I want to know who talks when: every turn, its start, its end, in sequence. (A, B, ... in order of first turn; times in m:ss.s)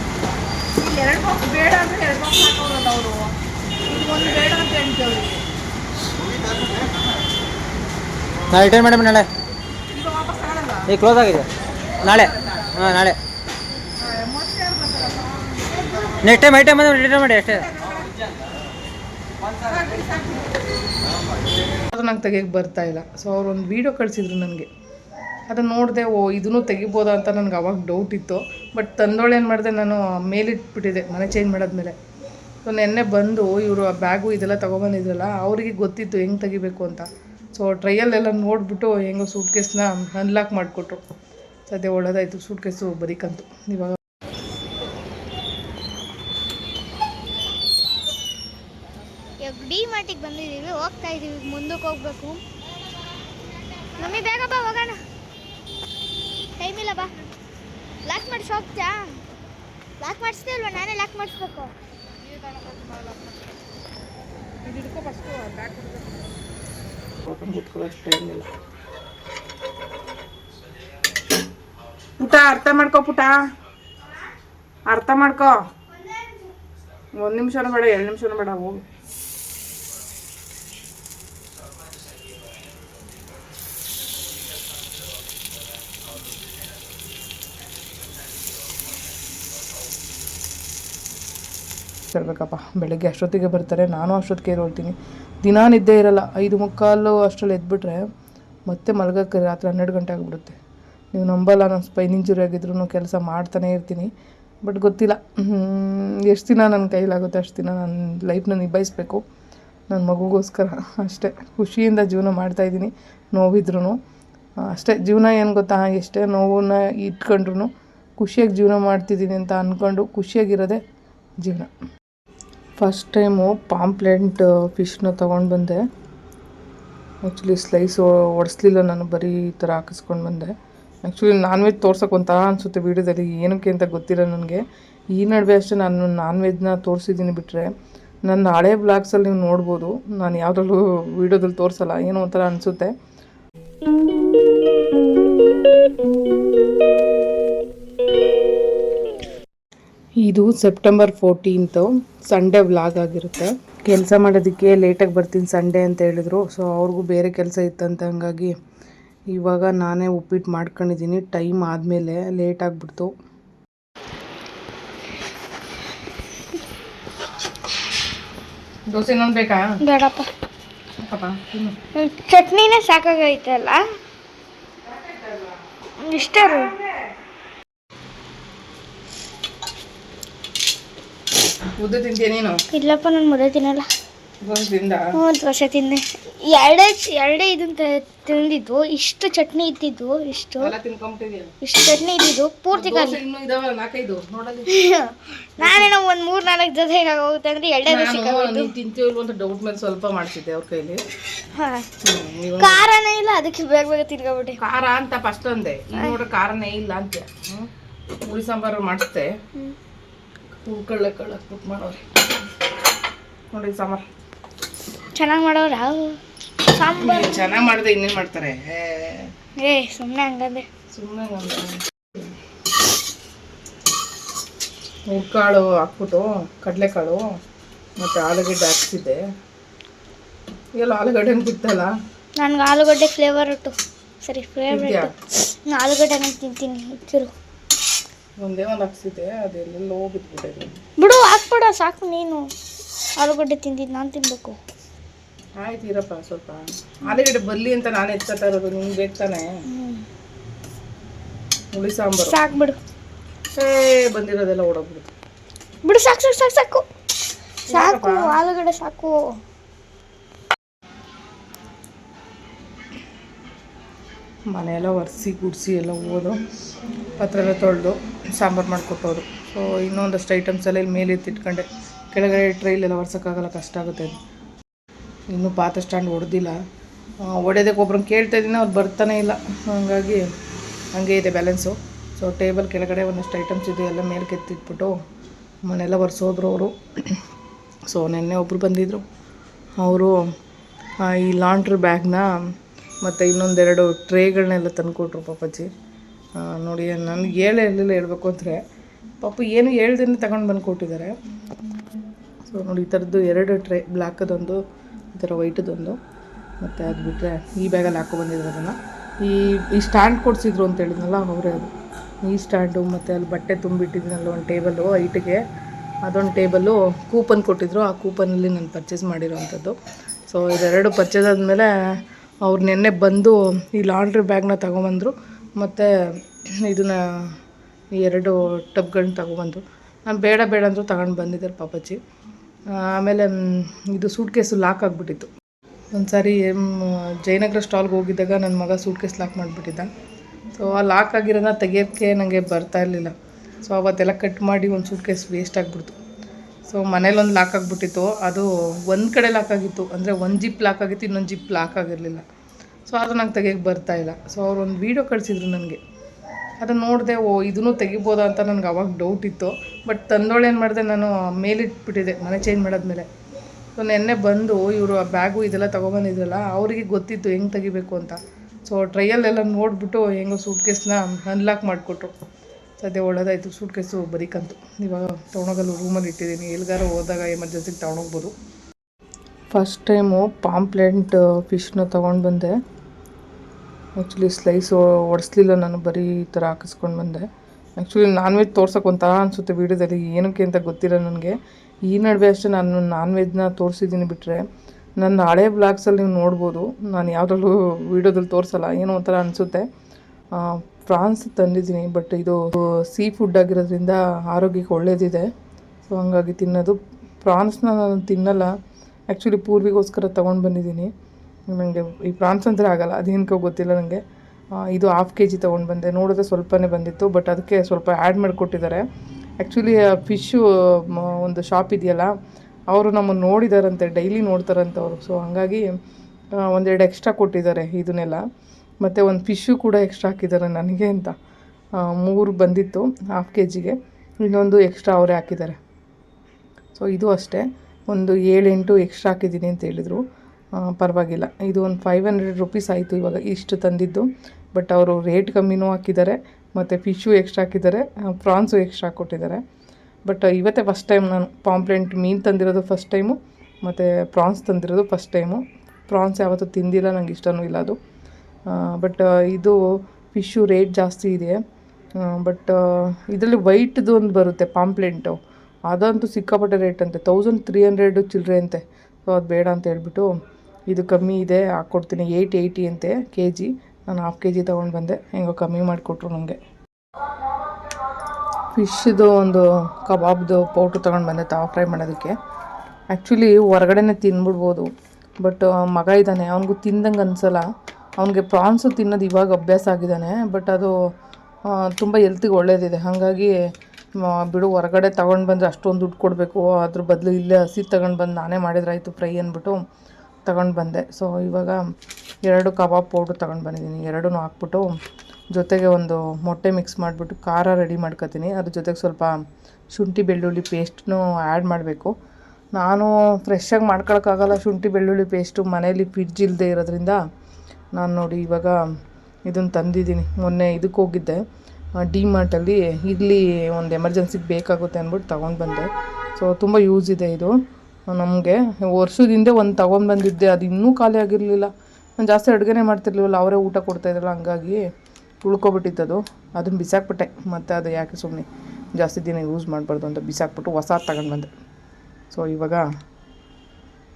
0:00.8-0:03.3 A
0:03.9-0:05.4 A
0:08.5-0:09.3 B
0:10.0-0:10.8 A
0:10.9-0:11.5 B
0:12.0-0:13.2 B
0:14.1-0:15.6 A
0:16.2-0:17.7 B
0:19.7-0:20.5 A
0:21.9-0:24.7 A
0:25.5-0:31.9 A
0:32.6-0:41.0 A
0:41.7-0:44.0 A
0:49.4-0:52.4 C
0:54.0-0:55.0 C
0:56.6-0:57.1 C
0:58.0-0:59.0 C
1:00.0-1:01.7 C
1:02.3-1:03.4 A
1:04.6-1:06.3 A
1:07.2-1:08.5 A
1:12.2-1:13.4 A
1:14.9-1:15.5 A
1:16.0-1:16.5 C
1:17.2-1:18.8 A
1:32.1-1:38.0 A
1:38.7-1:40.6 A
1:41.1-1:44.1 A
1:44.6-1:49.2 A
1:49.9-1:54.0 A
1:54.7-2:00.8 A
2:01.4-2:01.7 A
2:02.8-2:05.8 A
2:07.2-2:10.5 A
2:11.1-2:14.6 A
2:15.1-2:17.7 A
2:18.3-2:22.9 A
2:30.2-2:38.5 A
2:39.3-2:43.1 A
2:48.9-2:49.6 A
2:49.8-2:50.3 C
2:51.0-2:51.8 A
2:52.0-2:53.8 C
2:56.0-2:56.7 C
2:56.2-2:56.8 A
3:01.8-3:02.6 A
3:02.7-3:03.9 C
3:04.4-3:05.0 A
3:05.2-3:10.7 C
3:10.6-3:11.5 A
3:11.6-3:13.2 C
3:12.7-3:14.7 A
3:14.7-3:18.7 C
3:15.6-3:15.9 A
3:17.9-3:21.0 A
3:21.6-3:21.9 C
3:22.0-3:22.9 A
3:22.6-3:24.6 C
3:24.6-3:27.7 A
3:28.2-3:29.3 A
3:30.6-3:32.1 A
3:33.5-3:34.0 A
3:35.2-3:37.7 C
3:37.0-3:39.3 A
3:39.6-3:40.7 C
3:40.9-3:42.2 A
3:45.1-3:47.2 A
3:48.0-3:49.2 A
3:50.8-3:51.9 A
3:52.4-3:57.3 C
3:54.7-3:55.1 A
3:58.4-4:00.8 A
4:01.0-4:02.5 C
4:03.2-4:04.6 C
4:05.6-4:09.5 A
4:09.7-4:10.0 C
4:11.7-4:12.4 A
4:12.3-4:12.8 C
4:13.6-4:15.1 A
4:15.8-4:16.8 C
4:17.7-4:19.4 C
4:17.7-4:18.4 A
4:24.5-4:26.4 A
4:27.2-4:34.2 A
4:35.3-4:36.6 A
4:37.2-4:40.2 A
4:41.0-4:44.9 A
4:45.7-4:47.2 A
4:47.9-4:49.0 A
4:49.8-4:50.2 A
4:51.0-4:52.3 A
4:53.0-4:55.7 A
4:56.4-4:58.6 A
4:59.2-5:01.1 A
5:02.5-5:04.6 A
5:05.2-5:06.0 A
5:06.6-5:11.7 A
5:12.2-5:15.4 A
5:16.1-5:19.8 A
5:20.3-5:21.7 A
5:22.4-5:25.9 A
5:26.6-5:27.3 A
5:28.0-5:32.0 A
5:32.8-5:35.3 A
5:36.0-5:39.9 A
5:40.6-5:43.1 A
5:43.6-5:46.0 A
5:46.7-5:52.2 A
5:52.9-5:55.8 A
5:56.6-6:03.1 A
6:03.8-6:12.1 A
6:12.8-6:18.3 A
6:19.5-6:22.5 A
6:24.0-6:27.3 A
6:27.8-6:31.4 A
6:31.9-6:34.4 A
6:35.0-6:39.7 A
6:40.4-6:45.3 A
6:45.9-6:48.5 A
6:49.1-6:50.9 A
6:51.5-6:54.0 A
6:54.6-6:58.8 A
6:59.4-7:02.1 A
7:02.7-7:05.7 A
7:06.4-7:08.2 A
7:08.8-7:11.2 A
7:11.8-7:15.6 A
7:16.8-7:20.0 A
7:20.6-7:29.4 A
7:30.1-7:37.8 A
7:38.5-7:39.6 A
7:40.1-7:41.4 A
7:42.0-7:45.2 A
7:45.7-7:50.1 A
7:50.7-7:56.4 A
7:58.5-8:02.2 A
8:02.9-8:04.7 A
8:05.2-8:07.5 A
8:08.0-8:10.7 A
8:11.5-8:13.3 A
8:14.0-8:19.6 A
8:20.3-8:21.6 A
8:22.3-8:24.7 A
8:25.3-8:29.1 A
8:29.7-8:31.9 A
8:32.6-8:37.0 A
8:37.8-8:38.6 A
8:39.3-8:41.2 A
8:41.9-8:47.3 A
8:47.9-8:54.6 A
8:55.2-9:01.3 A
9:02.1-9:02.6 A